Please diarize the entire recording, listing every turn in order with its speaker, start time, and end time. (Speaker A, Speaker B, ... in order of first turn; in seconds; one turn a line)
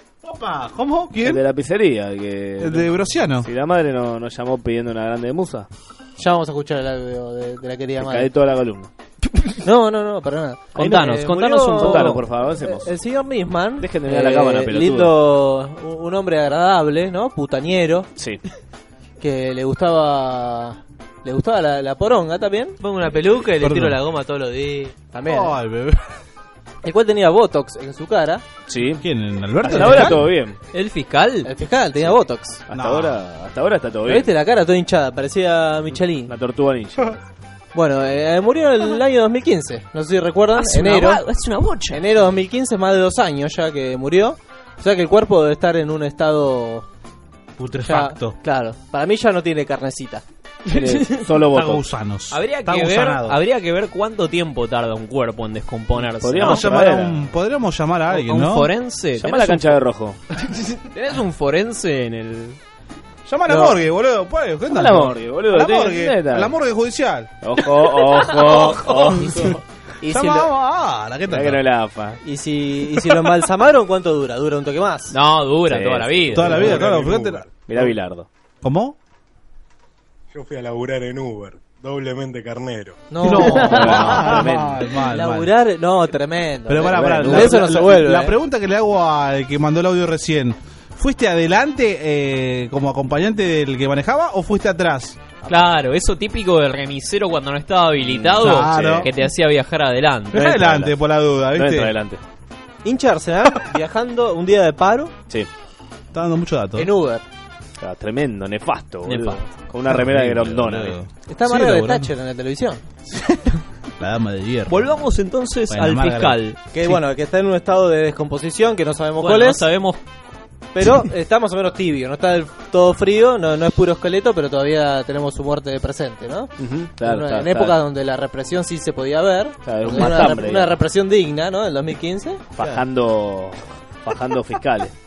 Speaker A: 0.2-1.4
Speaker B: 1.2-5.7
Speaker A: 2.6-3.5
Speaker C: 6.2-8.3
Speaker B: 8.0-8.9
Speaker C: 9.6-18.1
Speaker D: 10.7-12.2
Speaker B: 11.7-12.9
Speaker B: 13.8-15.1
Speaker B: 18.1-18.4
Speaker C: 19.2-25.6
Speaker A: 23.6-24.0
Speaker A: 25.3-26.0
Speaker C: 26.8-28.4
Speaker B: 28.7-29.0
Speaker A: 29.0-30.3
Speaker B: 29.6-30.6
Speaker D: 30.7-31.5
Speaker C: 31.4-32.6
Speaker B: 32.7-34.3
Speaker A: 32.7-33.2
Speaker C: 34.0-36.3
Speaker B: 36.3-37.2
Speaker C: 37.7-41.2
Speaker D: 40.5-42.0
Speaker C: 41.9-46.9
Speaker A: 47.6-48.4
Speaker C: 47.8-50.2
Speaker B: 50.7-51.9
Speaker D: 50.7-51.2
Speaker A: 51.5-53.4
Speaker D: 52.3-56.7
Speaker B: 56.2-57.2
Speaker A: 56.4-58.7
Speaker D: 58.1-59.8
Speaker B: 59.2-60.2
Speaker D: 60.8-62.6
Speaker A: 63.2-67.3
Speaker C: 63.5-63.8
Speaker B: 64.7-66.5
Speaker B: 67.4-69.5
Speaker C: 68.4-70.5
Speaker A: 70.1-71.6
Speaker B: 71.3-72.2
Speaker C: 72.2-75.1
Speaker D: 75.1-76.7
Speaker B: 75.7-76.9
Speaker A: 76.3-77.8
Speaker E: 76.6-77.5
Speaker B: 77.7-78.3
Speaker A: 78.6-79.0
Speaker E: 80.3-83.0
Speaker C: 83.1-88.3
Speaker A: 83.2-85.5
Speaker B: 83.3-84.8
Speaker A: 86.7-95.2
Speaker B: 86.8-87.8
Speaker D: 95.5-100.9
Speaker B: 98.1-99.1
Speaker A: 98.4-99.1
Speaker A: 100.3-102.0
Speaker B: 100.6-100.9
Speaker B: 101.5-102.2
Speaker C: 102.8-105.1
Speaker A: 106.1-106.9
Speaker C: 106.8-107.2
Speaker B: 107.8-111.0
Speaker D: 109.0-109.4
Speaker A: 109.9-112.1
Speaker C: 111.3-112.9
Speaker A: 114.0-115.0
Speaker D: 114.7-116.6
Speaker A: 115.7-116.9
Speaker C: 116.7-119.6
Speaker D: 119.2-120.0
Speaker C: 120.7-132.8
Speaker B: 126.6-127.8
Speaker B: 129.6-130.8
Speaker B: 132.6-134.9